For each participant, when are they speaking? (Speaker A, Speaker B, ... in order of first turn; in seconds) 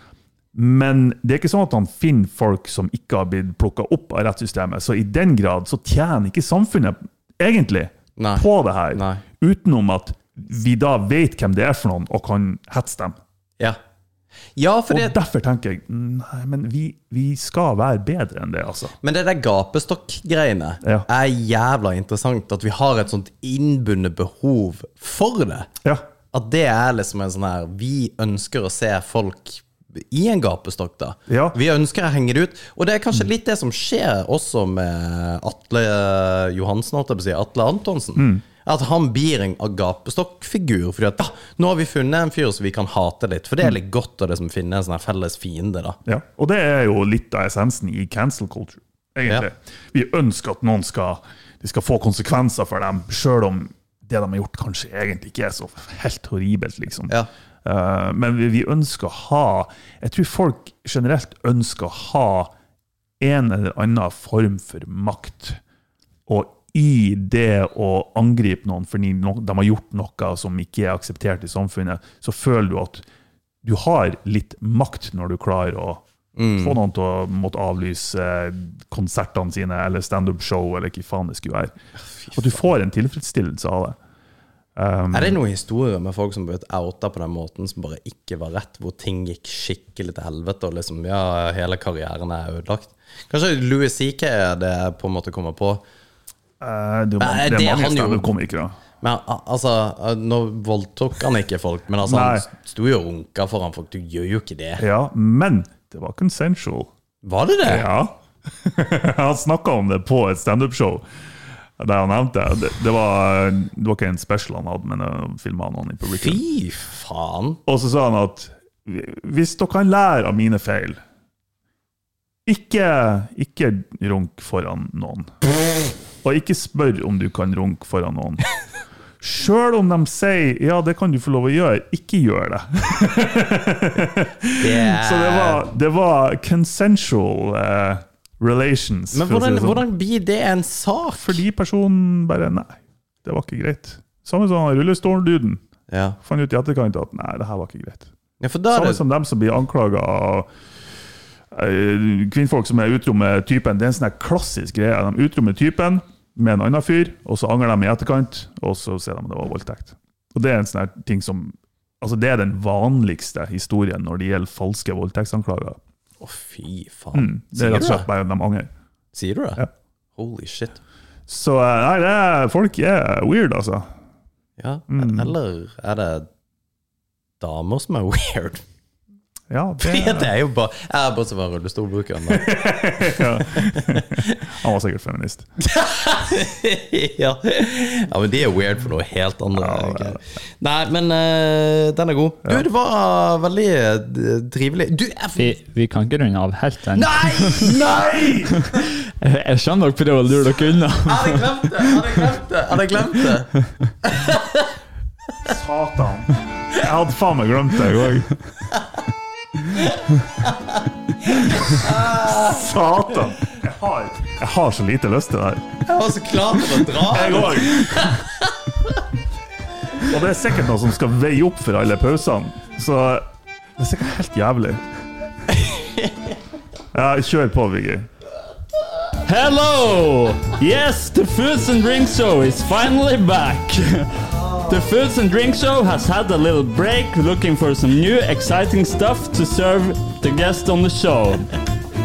Speaker A: 0.6-13.2, 14.9-18.9, 31.3-31.6, 38.2-38.4, 46.1-62.5, 63.2-65.6, 66.3-73.0, 73.6-76.0, 76.6-81.7, 82.3-84.0, 84.8-85.4, 96.6-98.8, 102.0-102.5, 104.8-106.9, 107.6-111.0, 111.8-116.4, 117.7-121.0, 122.5-125.3, 126.2-128.4, 129.2-139.8, 141.2-145.6, 146.2-148.1, 148.7-150.5, 151.5-165.8, 167.1-168.7, 171.3-173.9, 174.9-175.3, 179.5-180.3, 182.3-185.5, 189.6-190.2, 197.6-198.6, 205.4-208.3, 211.8-215.7, 217.1-218.1, 220.0-223.2, 223.8-224.8, 226.9-228.1
Speaker B: 8.2-9.2, 14.6-15.2, 19.0-25.7, 26.3-46.0, 76.4-76.8, 82.2-82.6, 85.1-95.8, 97.2-98.3, 99.0-104.8, 107.2-107.9, 116.1-117.6, 134.6-135.7, 139.1-141.4, 145.9-146.2, 148.4-149.0, 166.2-168.1, 169.1-169.6, 170.2-170.8, 174.6-176.3, 177.4-178.6, 179.8-184.4, 185.7-195.6, 197.0-198.0, 201.0-203.5, 204.0-204.5, 211.3-212.7, 215.9-218.2, 225.5-226.1
Speaker C: 195.4-197.8, 198.8-202.1, 207.9-208.3, 229.2-241.5